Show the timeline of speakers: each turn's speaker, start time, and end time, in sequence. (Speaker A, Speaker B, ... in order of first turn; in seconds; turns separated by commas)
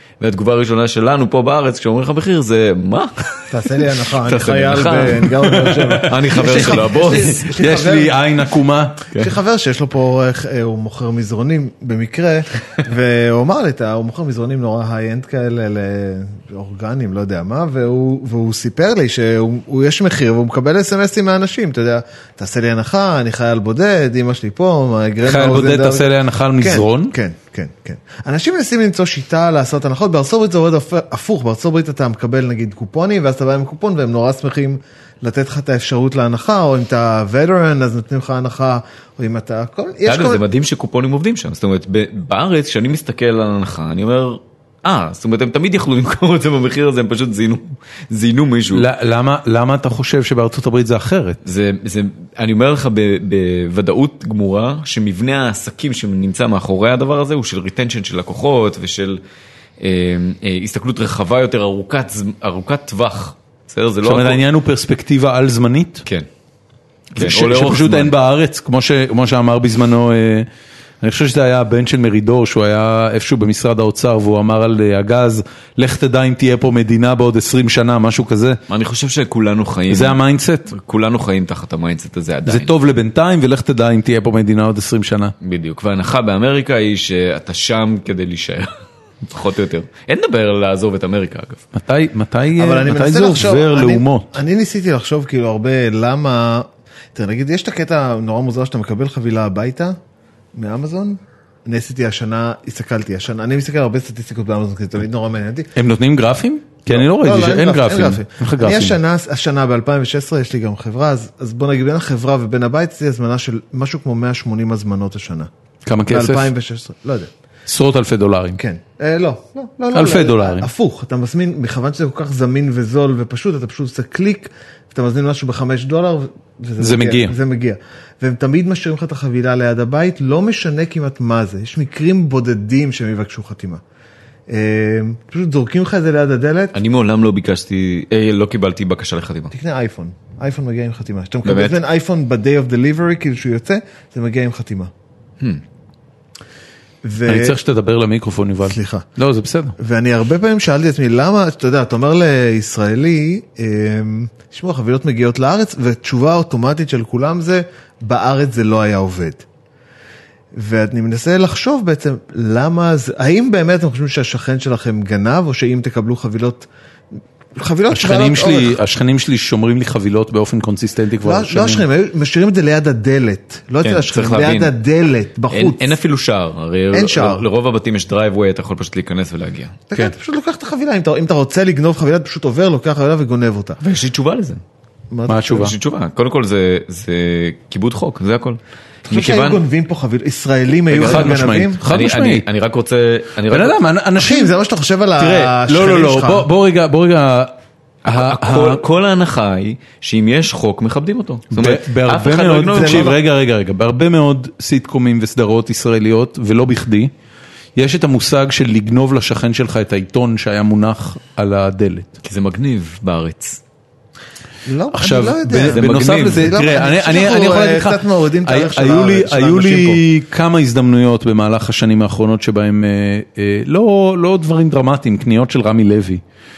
Speaker A: 0.2-7.5, Speaker B: 3.5-8.2, Speaker C: 5.7-9.1, Speaker B: 9.2-40.4, Speaker C: 25.2-27.1, Speaker A: 40.0-48.9, Speaker C: 48.7-51.4, Speaker A: 51.4-59.2, Speaker A: 59.8-64.4, Speaker C: 64.0-66.0, Speaker A: 67.1-68.1, Speaker C: 67.2-70.5, Speaker C: 71.0-78.6, Speaker A: 78.7-82.7, Speaker C: 79.9-80.7, Speaker C: 82.5-85.3, Speaker A: 85.4-91.6, Speaker C: 91.7-94.3, Speaker B: 92.6-100.0, Speaker B: 100.5-105.7, Speaker C: 105.7-109.0, Speaker B: 106.9-115.5, Speaker C: 115.8-116.5, Speaker B: 116.1-117.3, Speaker C: 117.7-118.6, Speaker B: 118.6-133.8, Speaker C: 119.9-120.7, Speaker C: 126.8-127.3, Speaker B: 134.5-136.7, Speaker A: 136.7-139.5, Speaker B: 139.5-144.9, Speaker A: 141.4-141.8, Speaker B: 147.0-147.6, Speaker C: 147.2-149.8, Speaker B: 148.6-149.1, Speaker B: 149.8-159.4, Speaker B: 160.5-166.7, Speaker B: 167.5-168.8, Speaker C: 167.9-171.8, Speaker B: 171.2-175.9, Speaker A: 173.8-174.7, Speaker A: 175.5-179.8, Speaker B: 176.9-177.4, Speaker B: 179.9-183.8, Speaker A: 183.8-184.6, Speaker B: 185.1-185.7, Speaker C: 185.3-185.7, Speaker A: 185.5-189.6, Speaker B: 189.1-191.8, Speaker A: 190.9-193.8, Speaker C: 191.0-192.4, Speaker C: 193.5-194.5, Speaker B: 194.2-196.5, Speaker C: 195.2-197.5, Speaker A: 198.0-203.2, Speaker C: 198.1-198.8, Speaker C: 201.5-207.1, Speaker B: 202.7-203.2, Speaker C: 207.8-212.1, Speaker A: 212.2-213.6, Speaker B: 214.6-220.0, Speaker C: 214.9-226.2, Speaker A: 215.5-216.5